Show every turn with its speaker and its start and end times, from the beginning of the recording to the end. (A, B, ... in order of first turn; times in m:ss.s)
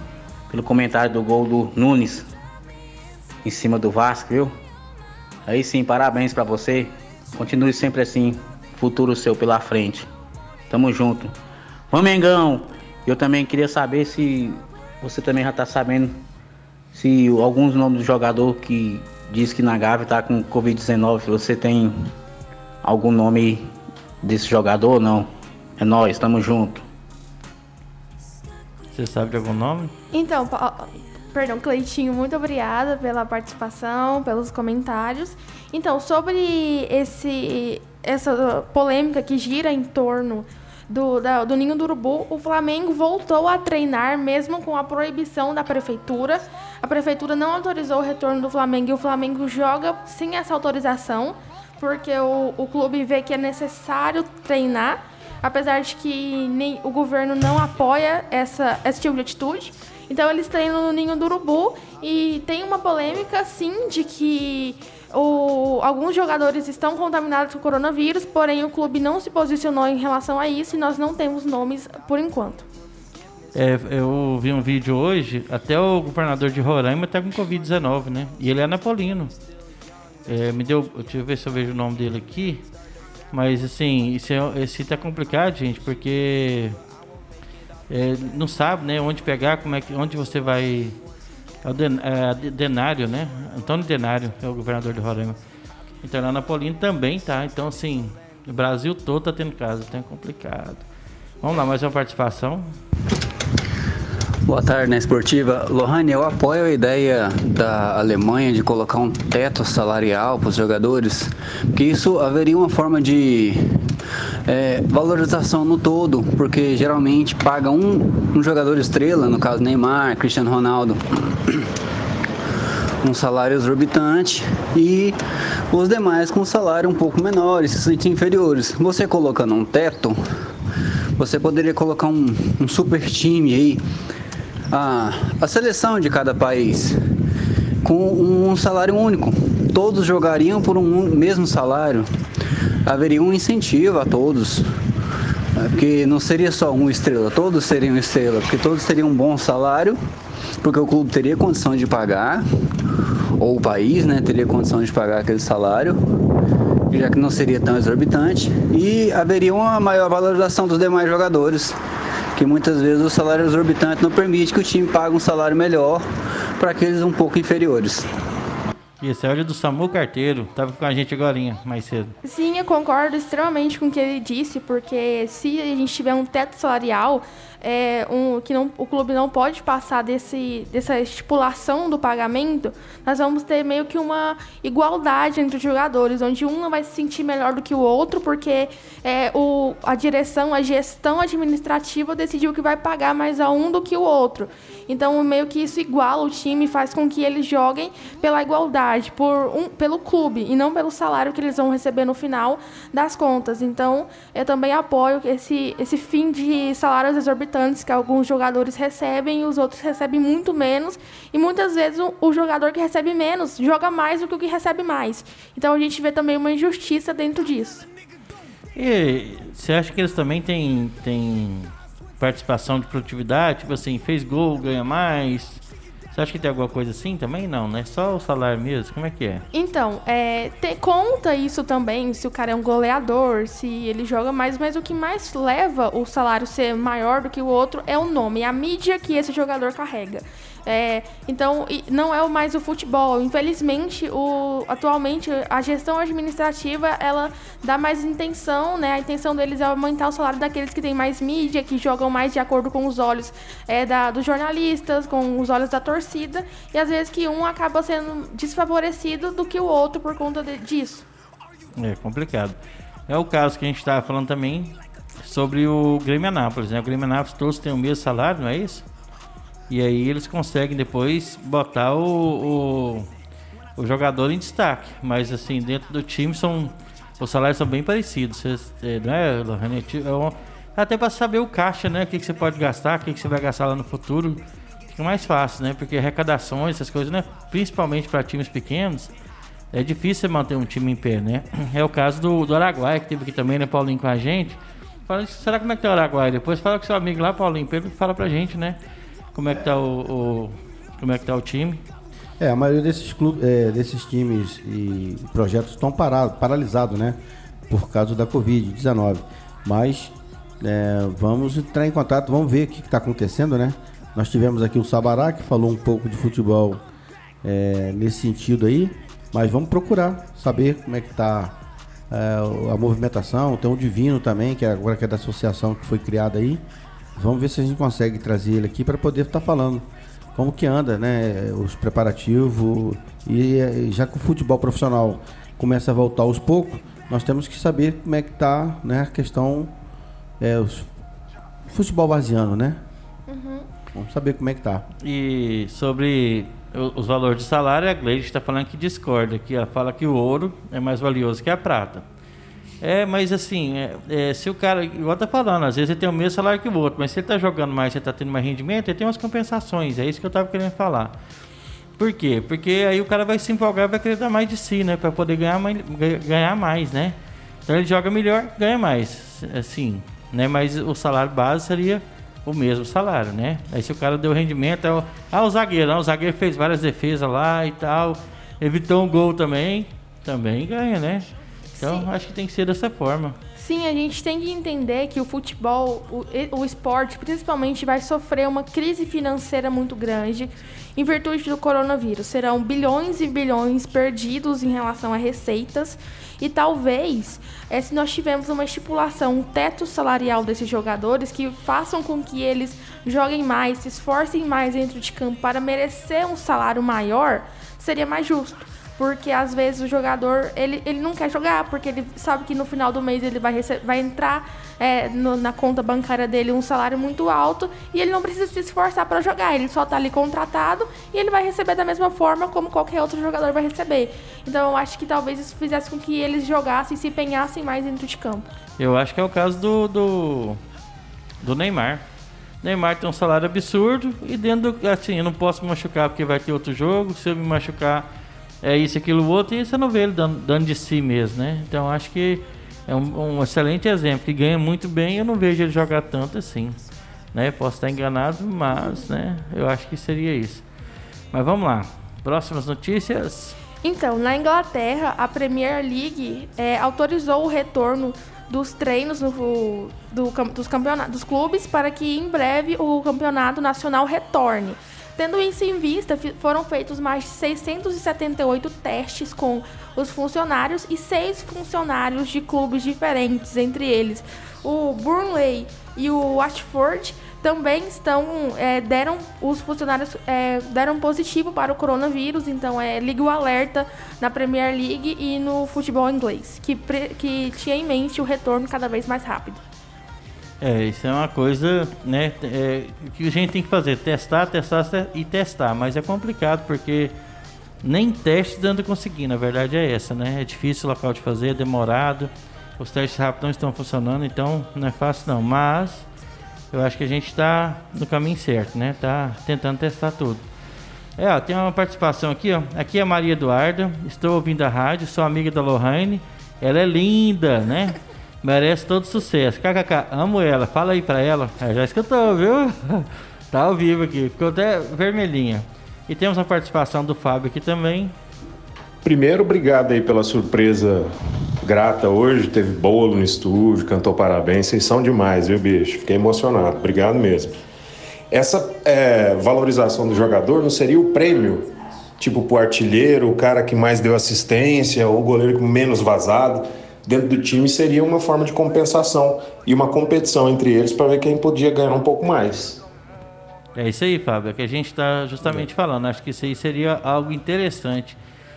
0:00.5-0:02.3 A
0:03.4-0:04.6 A
0:05.5-0:10.1 A
0:10.7-0:11.3 A
0:11.9-0:16.2 A
0:16.9-0:22.1 A
0:22.8-0:26.8 A
0:28.9-0:29.9 B
0:30.1-1:12.7 C
1:13.6-1:19.3 B
1:20.3-1:22.6 B
1:23.3-1:26.8 B
1:27.9-1:31.0 B
1:31.6-1:35.4 B
1:36.0-1:40.8 B
1:41.4-1:42.7 B
1:44.5-1:53.8 D
1:54.5-2:01.7 D
2:03.0-2:05.2 D
2:05.7-2:10.2 D
2:11.2-2:13.8 D
2:14.7-2:17.0 D
2:17.8-2:22.1 D
2:22.8-2:24.7 D
2:25.6-2:30.0 D
2:30.6-2:32.5 D
2:33.4-2:36.0 D
2:36.9-2:41.8 D
2:42.4-2:46.0 D
2:46.6-2:48.1 D
2:49.0-2:52.2 B
2:52.2-3:37.9 C
3:38.8-3:49.4 B
3:49.5-4:21.1 C
4:21.8-4:22.6 B
4:23.1-4:28.9 B
4:29.7-4:33.1 B
4:33.8-4:49.1 B
4:49.7-4:58.8 B
4:59.4-5:01.8 B
5:02.4-5:07.2 E
5:07.7-5:16.8 E
5:17.4-5:21.6 E
5:22.1-5:26.6 E
5:27.2-5:39.7 E
5:40.4-5:40.9 E
5:41.7-5:42.8 E
5:43.3-5:43.7 C
5:43.9-5:44.8 E
5:45.0-5:52.0 B
5:52.8-6:01.1 B
6:02.0-6:07.2 B
6:07.7-6:21.3 B
6:21.8-6:22.1 C
6:21.8-6:23.4 B
6:23.6-7:08.5 C
7:08.8-7:10.6 B
7:11.4-7:12.0 B
7:12.6-7:18.1 B
7:18.6-7:26.8 B
7:27.3-7:30.6 B
7:31.3-7:33.6 B
7:33.8-8:09.6 C
8:10.6-8:17.1 B
8:17.8-8:26.1 B
8:26.7-8:30.4 B
8:31.2-8:48.1 B
8:49.0-8:51.1 F
8:51.6-8:57.6 F
8:58.3-9:12.8 F
9:13.8-9:18.2 B